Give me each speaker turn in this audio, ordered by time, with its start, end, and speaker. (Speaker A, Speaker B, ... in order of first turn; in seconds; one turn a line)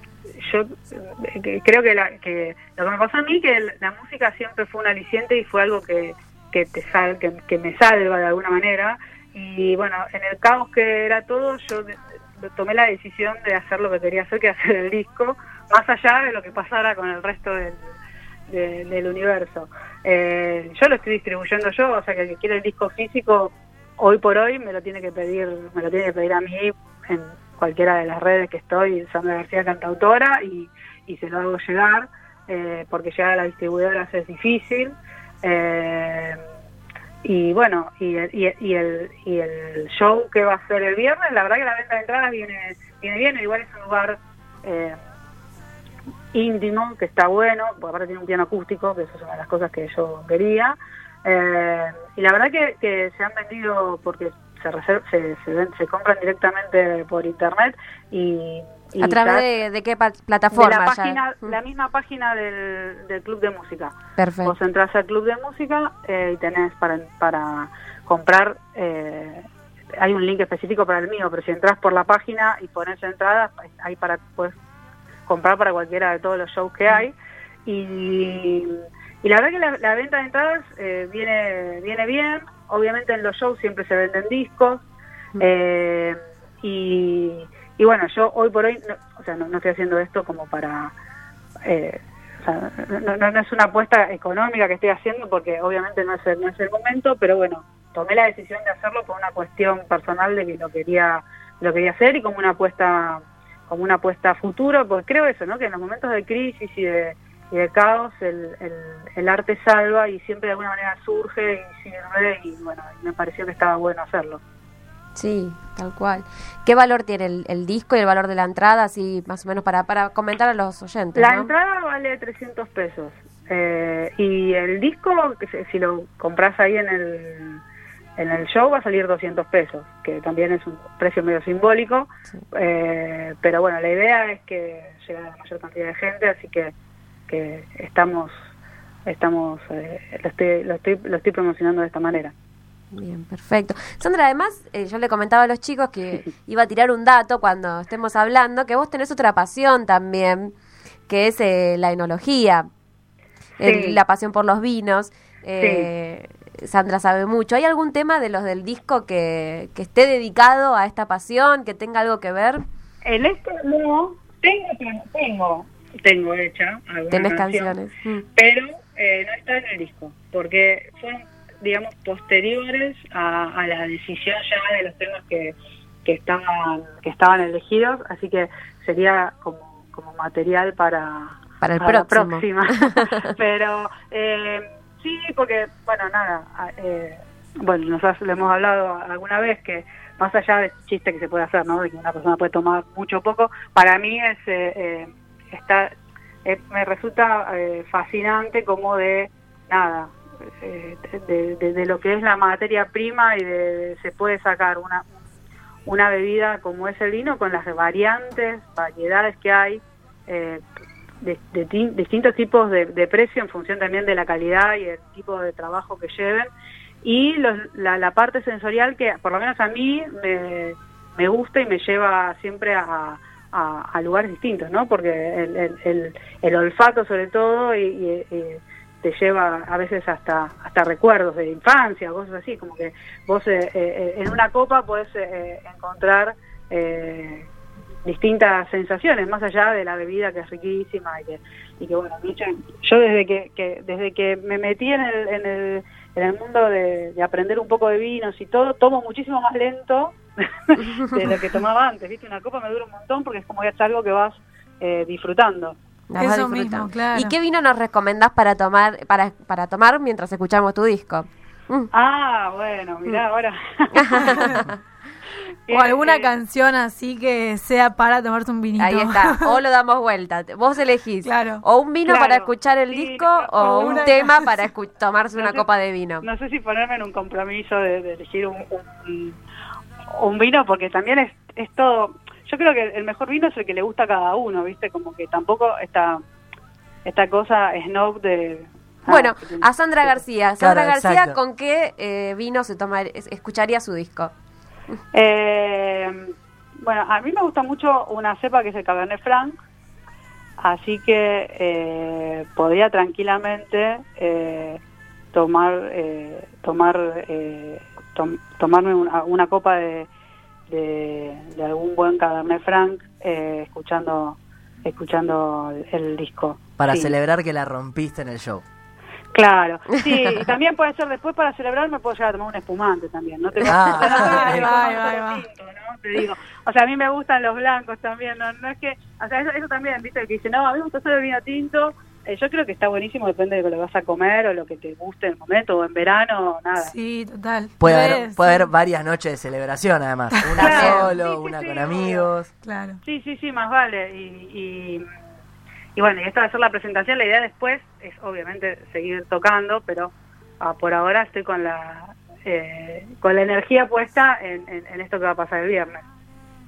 Speaker A: 0.4-17.8
Speaker A: 18.5-36.4
Speaker A: 37.2-45.0
Speaker A: 46.3-59.5
Speaker B: 59.0-61.5
Speaker A: 60.5-69.4
Speaker B: 64.2-64.5
Speaker A: 70.0-74.5
Speaker A: 75.3-77.1
Speaker A: 77.7-84.8
Speaker A: 85.4-90.9
Speaker A: 91.7-114.4
Speaker B: 115.2-121.5
Speaker A: 121.1-127.6
Speaker A: 128.2-136.7
Speaker A: 137.3-138.3
Speaker A: 139.1-142.3
Speaker B: 142.9-150.5
Speaker B: 151.1-152.7
Speaker B: 153.6-162.6
Speaker A: 153.6-154.0
Speaker A: 155.6-155.9
Speaker A: 163.0-167.7
Speaker B: 167.1-168.2
Speaker A: 168.3-195.9
Speaker B: 181.6-183.3
Speaker A: 196.4-205.1
Speaker A: 205.8-210.6
Speaker A: 211.2-216.5
Speaker A: 217.0-237.5
Speaker A: 238.0-255.8
Speaker B: 256.1-261.9
Speaker C: 256.2-257.3
Speaker A: 261.9-264.6
Speaker B: 263.9-264.7
Speaker A: 265.7-266.3
Speaker C: 265.7-269.6
Speaker B: 268.8-276.2
Speaker C: 271.2-271.6
Speaker A: 272.1-274.3
Speaker C: 273.8-274.5
Speaker A: 275.4-275.6
Speaker A: 276.2-279.4
Speaker A: 280.1-286.2
Speaker A: 287.0-290.2
Speaker B: 289.1-294.3
Speaker D: 290.6-291.4
Speaker A: 295.1-296.2
Speaker A: 296.8-299.5
Speaker A: 300.6-304.8
Speaker A: 305.3-310.1
Speaker A: 310.7-317.1
Speaker D: 316.8-318.6
Speaker A: 319.3-336.9
Speaker D: 323.7-324.7
Speaker C: 324.0-325.4
Speaker C: 336.8-338.6
Speaker D: 337.8-342.5
Speaker C: 340.3-341.2
Speaker A: 340.6-342.3
Speaker B: 340.6-341.1
Speaker C: 342.6-343.0
Speaker A: 343.0-345.0
Speaker A: 345.9-356.0